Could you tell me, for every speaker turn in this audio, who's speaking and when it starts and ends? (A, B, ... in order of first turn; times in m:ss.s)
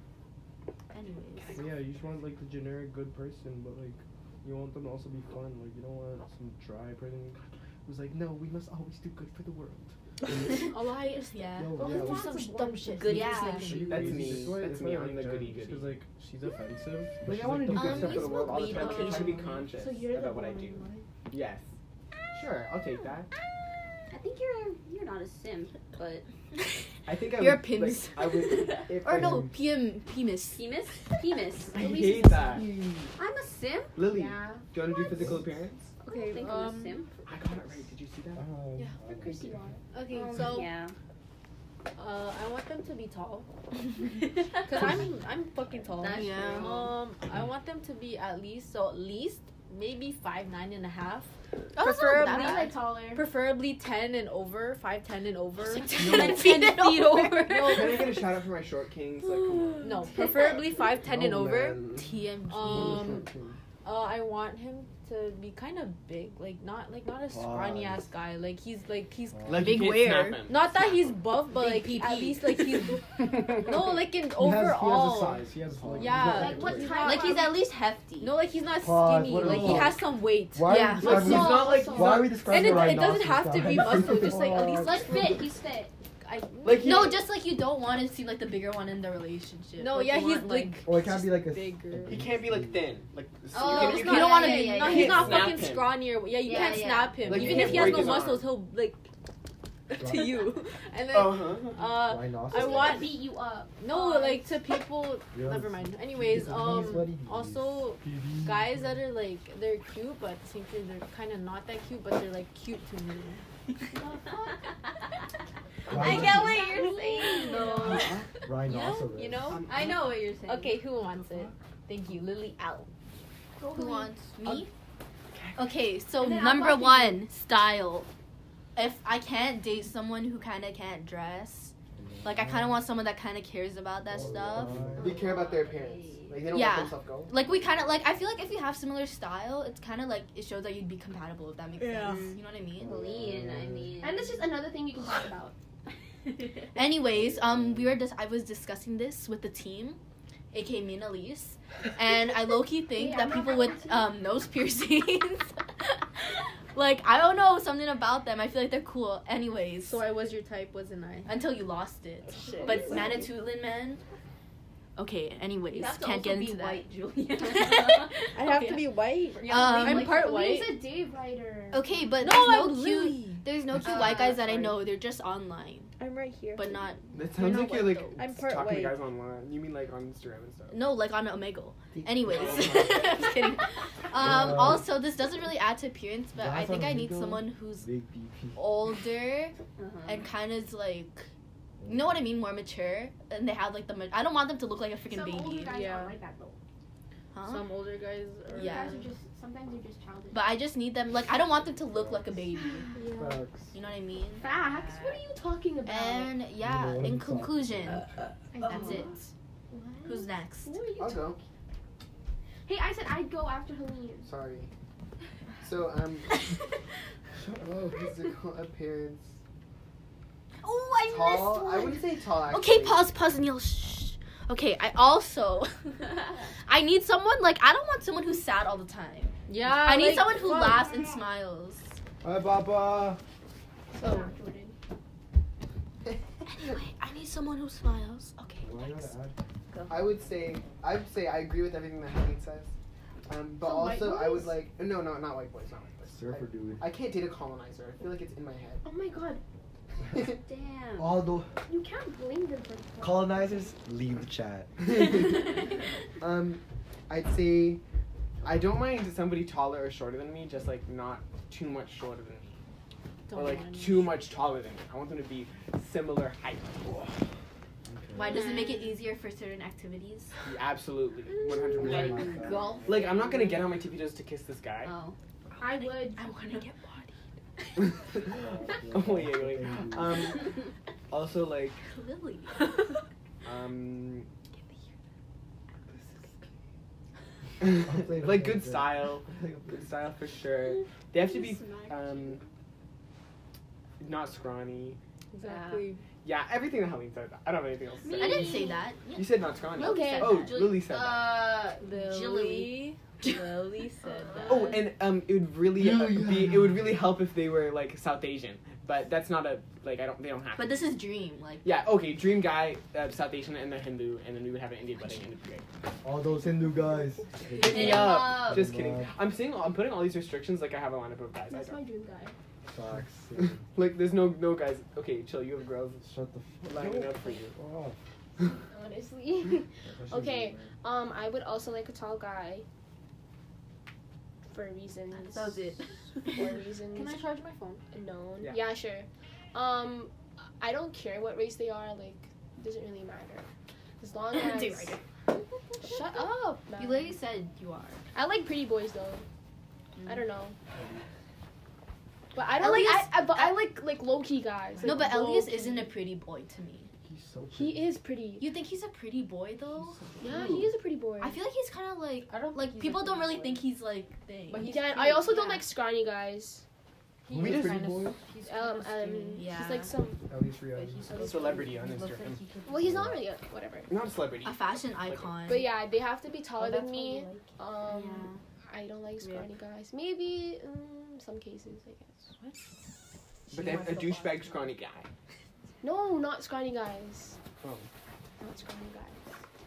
0:00.9-0:01.7 A
0:01.6-0:09.9 B
0:10.4-0:14.1 A
0:10.5-0:14.2 C
0:11.6-0:12.3 D
0:12.1-0:13.8 E
0:13.2-0:18.8 B
0:13.8-0:16.0 F
0:17.2-0:21.7 F
0:17.7-0:19.7 A
0:18.7-0:21.1 C
0:22.3-0:23.3 F
0:24.1-0:26.2 G
0:26.6-0:30.6 A
0:27.0-0:29.4 F
0:29.1-0:29.5 D
0:30.5-0:31.8 G
0:31.7-0:32.6 C
0:31.7-0:32.7 F
0:33.1-0:34.0 G
0:34.0-0:35.9 F
0:34.0-0:34.8 C
0:35.1-0:35.5 D
0:36.1-0:37.2 E
0:36.1-0:36.4 C
0:36.1-0:37.1 G
0:37.2-0:38.4 F
0:38.4-0:39.7 D
0:39.0-0:39.8 C
0:39.9-0:40.7 E
0:40.1-0:40.9 G
0:42.0-0:43.4 E
0:44.3-0:58.2 E
0:45.9-0:46.9 G
0:46.1-0:46.8 A
0:51.7-0:52.7 A
0:52.1-0:53.3 C
0:55.7-0:58.1 A
0:56.1-0:56.4 B
0:57.6-1:00.1 F
0:59.8-1:01.8 E
1:00.1-1:00.5 A
1:00.9-1:03.6 B
1:02.0-1:03.1 A
1:02.5-1:03.3 E
1:03.8-1:09.7 E
1:07.3-1:08.1 D
1:09.3-1:09.8 D
1:09.5-1:11.1 F
1:09.5-1:10.4 A
1:10.4-1:17.4 E
1:11.5-1:12.9 A
1:13.2-1:13.6 F
1:14.3-1:16.9 B
1:15.7-1:16.3 D
1:16.3-1:17.6 C
1:17.0-1:18.1 A
1:17.0-1:18.3 G
1:18.2-1:20.8 E
1:18.8-1:25.0 D
1:19.4-1:20.0 B
1:20.6-1:21.6 A
1:21.0-1:22.9 F
1:21.0-1:22.4 C
1:22.4-1:25.2 E
1:23.7-1:25.2 B
1:24.5-1:25.9 C
1:26.2-1:27.2 E
1:26.6-1:27.2 F
1:26.8-1:30.8 A
1:29.8-1:32.3 E
1:30.8-1:32.9 D
1:32.0-1:36.0 F
1:33.5-1:35.4 G
1:33.6-1:35.5 A
1:34.2-1:39.0 E
1:36.4-1:37.2 G
1:37.2-1:38.2 D
1:37.2-1:38.5 F
1:39.9-1:53.4 E
1:40.0-1:40.5 D
1:41.1-1:41.8 F
1:41.8-1:43.1 D
1:42.4-1:44.6 C
1:45.3-1:49.0 D
1:48.0-1:48.6 B
1:53.9-1:54.7 C
1:55.9-1:56.6 D
1:55.9-1:58.1 A
1:56.0-1:58.1 G
1:56.0-1:58.0 C
1:57.8-1:58.3 F
1:58.4-1:59.6 D
1:58.6-1:59.6 E
1:59.5-2:00.1 F
1:59.6-2:00.8 G
2:00.4-2:02.9 E
2:01.2-2:01.5 F
2:03.6-2:04.2 C
2:03.7-2:04.7 A
2:05.3-2:05.7 F
2:05.6-2:08.1 A
2:06.2-2:07.3 C
2:08.7-2:14.7 A
2:11.9-2:12.8 D
2:14.1-2:15.2 D
2:14.9-2:17.3 F
2:15.0-2:16.4 G
2:16.5-2:22.9 A
2:17.5-2:17.9 G
2:21.8-2:22.2 E
2:22.1-2:24.5 G
2:22.8-2:23.9 D
2:24.0-2:25.6 C
2:26.7-2:30.0 A
2:27.1-2:28.0 D
2:30.5-2:40.0 A
2:32.9-2:34.2 C
2:39.8-2:41.5 E
2:41.3-2:44.0 A
2:42.4-2:43.3 C
2:42.4-2:43.1 G
2:45.0-2:46.9 A
2:45.7-2:48.2 G
2:47.4-2:50.8 A
2:48.3-2:50.6 E
2:49.4-2:50.2 G
2:49.9-2:52.0 C
2:51.7-2:56.0 A
2:52.2-2:53.5 E
2:53.8-2:54.7 G
2:56.0-2:56.8 E
2:56.5-2:58.2 A
2:57.1-3:00.9 F
2:58.1-2:59.0 E
3:00.7-3:07.9 A
3:02.3-3:03.2 F
3:04.1-3:04.9 D
3:06.3-3:08.8 D
3:08.5-3:09.5 A
3:09.8-3:10.3 G
3:10.0-3:11.3 A
3:11.8-3:12.3 D
3:11.9-3:15.8 A
3:15.0-3:16.6 C
3:15.7-3:16.2 E
3:17.3-3:17.7 A
3:17.4-3:19.0 E
3:18.5-3:20.6 C
3:18.5-3:19.1 A
3:20.3-3:22.9 A
3:21.8-3:22.5 D
3:22.8-3:23.3 C
3:23.0-3:23.4 E
3:23.2-3:23.7 D
3:23.7-3:25.2 A
3:24.4-3:26.4 C
3:25.8-3:28.0 A
3:26.6-3:28.1 D
3:28.5-3:29.2 C
3:28.6-3:29.3 A
3:29.7-3:31.4 C
3:30.0-3:30.8 A
3:31.0-3:31.4 F
3:32.6-3:34.3 C
3:34.2-3:34.7 F
3:35.6-3:36.5 F
3:37.4-3:37.9 B
3:37.6-3:39.4 F
3:40.6-3:52.0 A
3:41.0-3:43.1 F
3:46.3-3:46.5 C
3:49.5-3:50.8 E
3:50.7-3:51.2 C
3:52.2-3:53.2 B
3:53.9-3:54.7 C
3:54.0-3:54.3 E
3:56.4-3:59.1 A
3:58.6-3:59.4 D
3:59.7-4:00.1 G
3:59.9-4:02.7 F
4:03.3-4:08.8 F
4:03.6-4:04.6 C
4:06.1-4:06.9 D
4:08.8-4:09.4 C
4:10.1-4:11.2 G
4:11.0-4:11.5 D
4:11.6-4:13.7 C
4:13.0-4:14.8 D
4:14.9-4:15.2 F
4:16.2-4:17.8 F
4:18.4-4:22.6 F
4:23.3-4:24.2 E
4:23.3-4:27.2 F
4:27.9-4:28.3 D
4:28.1-4:30.3 A
4:28.2-4:29.0 G
4:30.4-4:34.9 F
4:31.2-4:32.5 C
4:31.8-4:33.1 D
4:31.8-4:33.4 G
4:34.8-4:35.2 G
4:35.6-4:36.4 C
4:35.8-4:36.8 A
4:36.8-4:37.1 E
4:37.6-4:37.9 A
4:38.1-4:38.4 F
4:38.2-4:40.4 D
4:38.9-4:41.8 F
4:41.8-4:42.8 A
4:43.4-4:44.3 F
4:47.6-4:52.4 F
4:47.7-4:49.8 D
4:51.7-4:52.3 G
4:54.0-4:55.0 F
4:55.3-4:56.0 E
4:55.4-4:55.8 G
4:56.2-5:01.4 F
4:58.0-4:58.6 G
4:58.0-4:58.9 C
4:58.1-5:00.7 A
4:59.7-5:00.5 C
5:00.4-5:02.9 G
5:01.8-5:04.8 E
5:04.0-5:04.8 G
5:04.5-5:10.8 F
5:05.8-5:06.7 D
5:10.6-5:11.7 A
5:11.6-5:15.7 F
5:16.0-5:19.2 D
5:17.6-5:21.8 F
5:17.6-5:18.6 G
5:17.6-5:18.2 A
5:21.5-5:22.4 C
5:22.7-5:23.6 D
5:23.3-5:26.1 F
5:26.0-5:28.0 D
5:26.6-5:27.5 F
5:28.5-5:32.6 C
5:29.8-5:30.7 B
5:34.5-5:37.2 C
5:35.1-5:36.6 A
5:36.9-5:37.8 E
5:37.9-5:43.5 C
5:38.4-5:38.7 F
5:44.0-5:45.0 C
5:44.3-5:45.0 A
5:45.8-5:47.2 C
5:45.9-5:48.0 A
5:48.1-5:49.2 C
5:50.0-5:50.3 A
5:50.0-5:50.6 C
5:50.7-5:51.0 B
5:52.3-5:55.2 C
5:52.6-5:53.7 A
5:54.8-5:56.0 E
5:54.8-5:56.9 A
5:57.0-5:58.0 B
5:57.5-5:58.5 C
5:58.4-6:00.0 A
5:59.8-6:00.4 B
6:00.2-6:01.4 C
6:00.2-6:00.7 F
6:01.2-6:04.8 A
6:02.3-6:03.6 E
6:04.5-6:05.7 E
6:04.6-6:06.6 C
6:07.3-6:09.5 E
6:07.3-6:08.2 B
6:07.3-6:08.0 F
6:08.4-6:10.3 C
6:09.4-6:09.9 A
6:10.3-6:11.3 B
6:10.7-6:13.1 E
6:11.1-6:11.9 C
6:11.2-6:12.4 F
6:12.6-6:13.9 C
6:12.8-6:13.1 D
6:13.9-6:15.4 F
6:14.4-6:15.7 A
6:15.4-6:22.4 C
6:16.6-6:17.6 E
6:17.9-6:18.4 A
6:23.5-6:24.6 C
6:23.5-6:25.1 F
6:23.8-6:24.4 E
6:25.8-6:27.4 C
6:27.6-6:27.9 F
6:28.4-6:29.4 C